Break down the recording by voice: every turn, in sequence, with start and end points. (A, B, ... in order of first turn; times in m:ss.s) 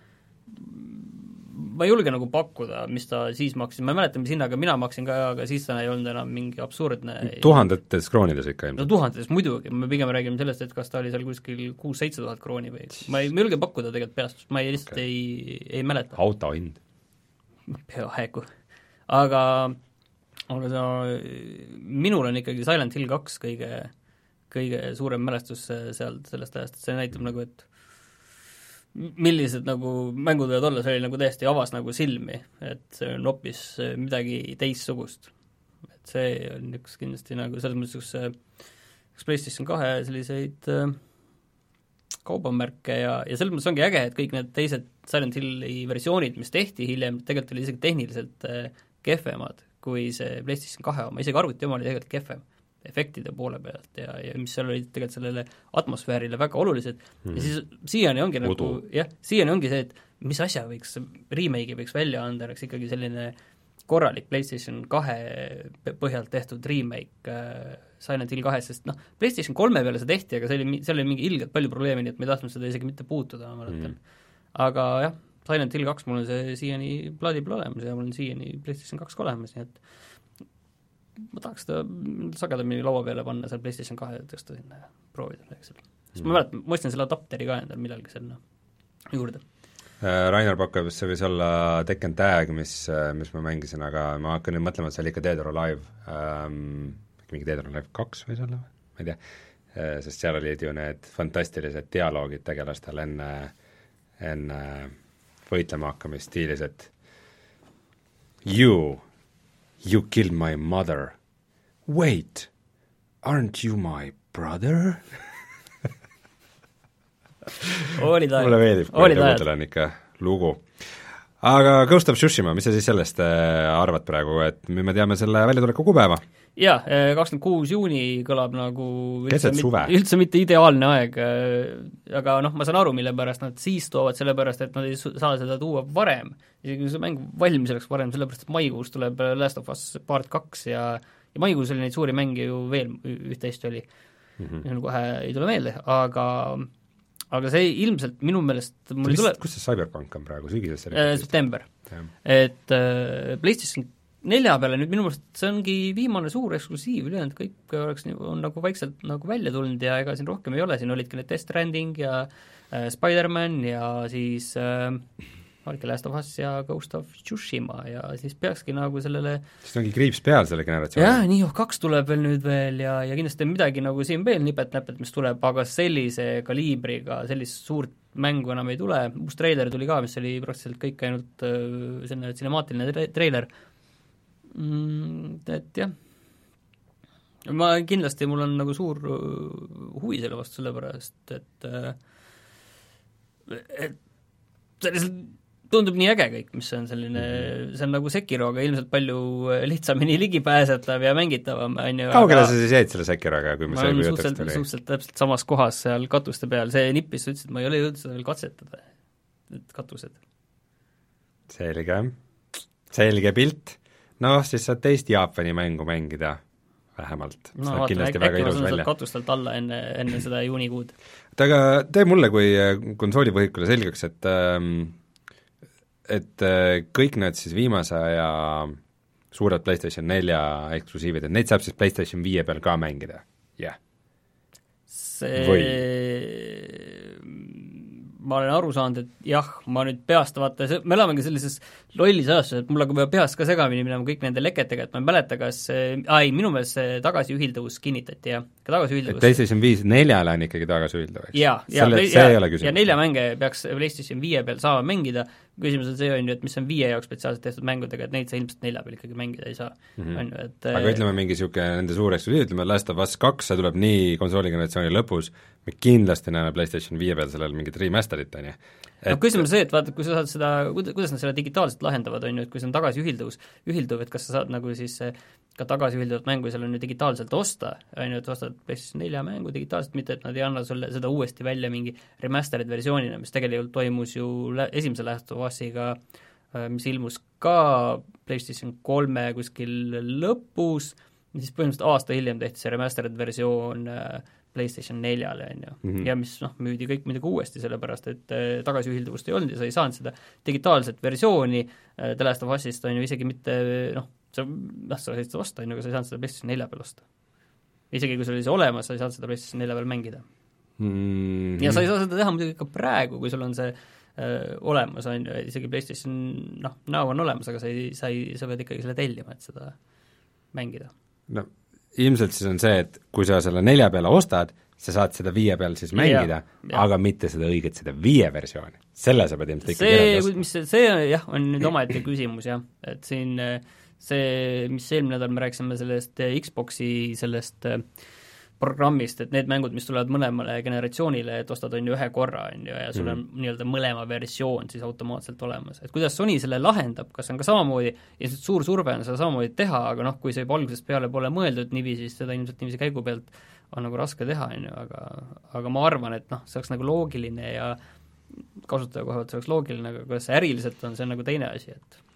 0:00.5-0:07.6 A
0:07.2-0:08.9 B
0:08.8-0:16.2 A
0:16.1-0:16.8 B
0:17.7-0:18.5 A
0:19.1-0:19.8 A
0:20.5-0:23.9 A
0:24.5-0:27.6 A
0:28.9-0:35.3 A
0:36.0-0:38.3 A
0:39.1-0:41.0 A
0:42.2-1:03.3 A
0:57.2-0:57.5 B
0:58.4-0:58.8 B
1:03.9-1:14.0 A
1:13.7-1:13.9 B
1:14.5-1:19.8 A
1:21.3-1:28.4 A
1:29.1-1:29.4 A
1:30.0-1:39.2 B
1:39.7-1:43.5 B
1:44.2-1:44.9 B
1:45.4-1:46.9 B
1:48.4-1:49.0 B
1:49.8-1:51.2 B
1:51.8-1:52.5 B
1:53.2-1:55.2 B
1:57.6-2:00.7 B
1:57.9-1:59.4 A
2:01.4-2:06.2 B
2:06.6-2:23.9 A
2:09.3-2:09.9 B
2:24.4-2:24.6 B
2:24.6-2:26.7 A
2:27.3-2:29.4 A
2:29.0-2:31.3 B
2:30.9-2:31.7 A
2:32.2-2:45.0 A
2:45.6-2:49.4 A
2:49.6-2:51.2 B
2:51.0-3:03.5 A
3:04.5-3:05.9 A
3:07.4-3:12.0 A
3:13.5-3:14.0 A
3:14.8-3:22.6 A
3:17.1-3:17.5 B
3:22.1-3:24.6 B
3:23.7-3:28.8 A
3:29.5-3:30.2 A
3:31.5-3:32.1 B
3:32.9-3:36.4 B
3:37.0-3:38.9 B
3:37.6-3:40.9 A
3:41.3-3:45.0 B
3:46.0-3:48.8 B
3:49.3-3:53.8 B
3:54.9-4:09.4 A
3:55.4-3:55.8 B
4:09.1-4:12.9 B
4:11.3-4:21.0 A
4:20.0-4:29.4 B
4:29.1-4:46.0 A
4:46.5-5:07.0 A
4:55.8-4:56.1 B
5:07.9-5:10.2 A
5:10.8-5:11.9 B
5:11.6-5:19.8 A
5:20.5-5:20.9 A
5:21.3-5:30.4 B
5:25.9-5:26.8 A
5:29.6-5:37.8 A
5:38.6-5:57.8 A
5:42.9-5:43.2 B
5:58.6-6:02.0 A